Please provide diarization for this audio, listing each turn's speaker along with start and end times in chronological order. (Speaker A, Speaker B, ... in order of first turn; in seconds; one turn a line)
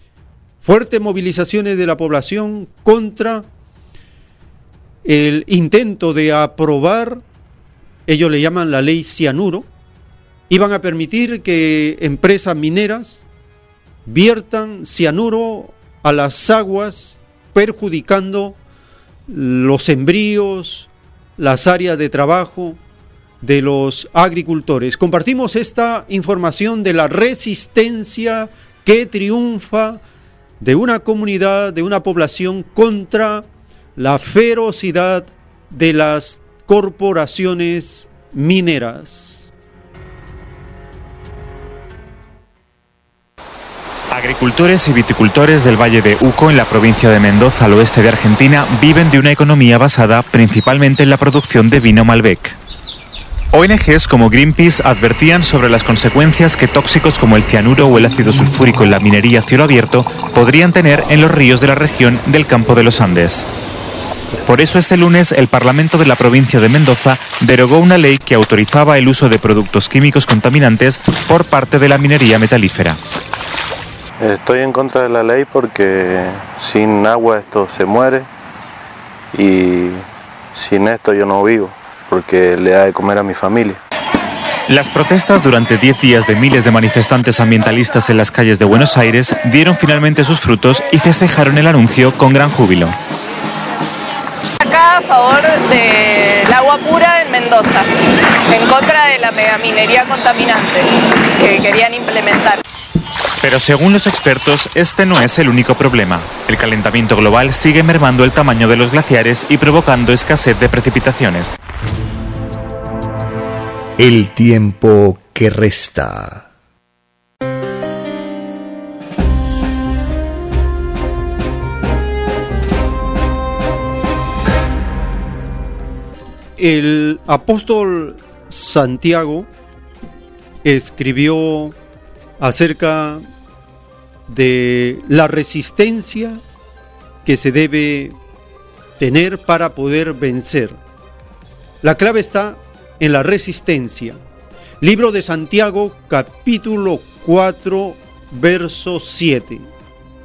Speaker A: 0.6-3.5
Speaker A: 5.0-7.2
Speaker A: 8.1-9.7
Speaker A: 10.5-13.3
Speaker A: 14.1-18.6
Speaker A: 19.3-22.8
Speaker A: 23.4-30.0
Speaker A: 30.6-33.5
Speaker A: 34.0-39.5
Speaker B: 44.1-52.6
Speaker B: 53.5-63.5
Speaker B: 64.5-73.0
Speaker C: 74.2-78.3
Speaker C: 79.3-80.0
Speaker C: 80.6-83.8
Speaker B: 84.7-93.0
Speaker D: 94.6-97.9
Speaker D: 98.5-102.6
Speaker B: 103.4-111.5
Speaker E: 114.0-116.5
Speaker A: 126.6-129.5
Speaker A: 130.6-131.8
Speaker A: 132.4-133.2
Speaker A: 134.3-136.4
Speaker A: 137.2-138.2
Speaker A: 139.0-140.8
Speaker A: 141.8-144.2
Speaker A: 144.8-149.7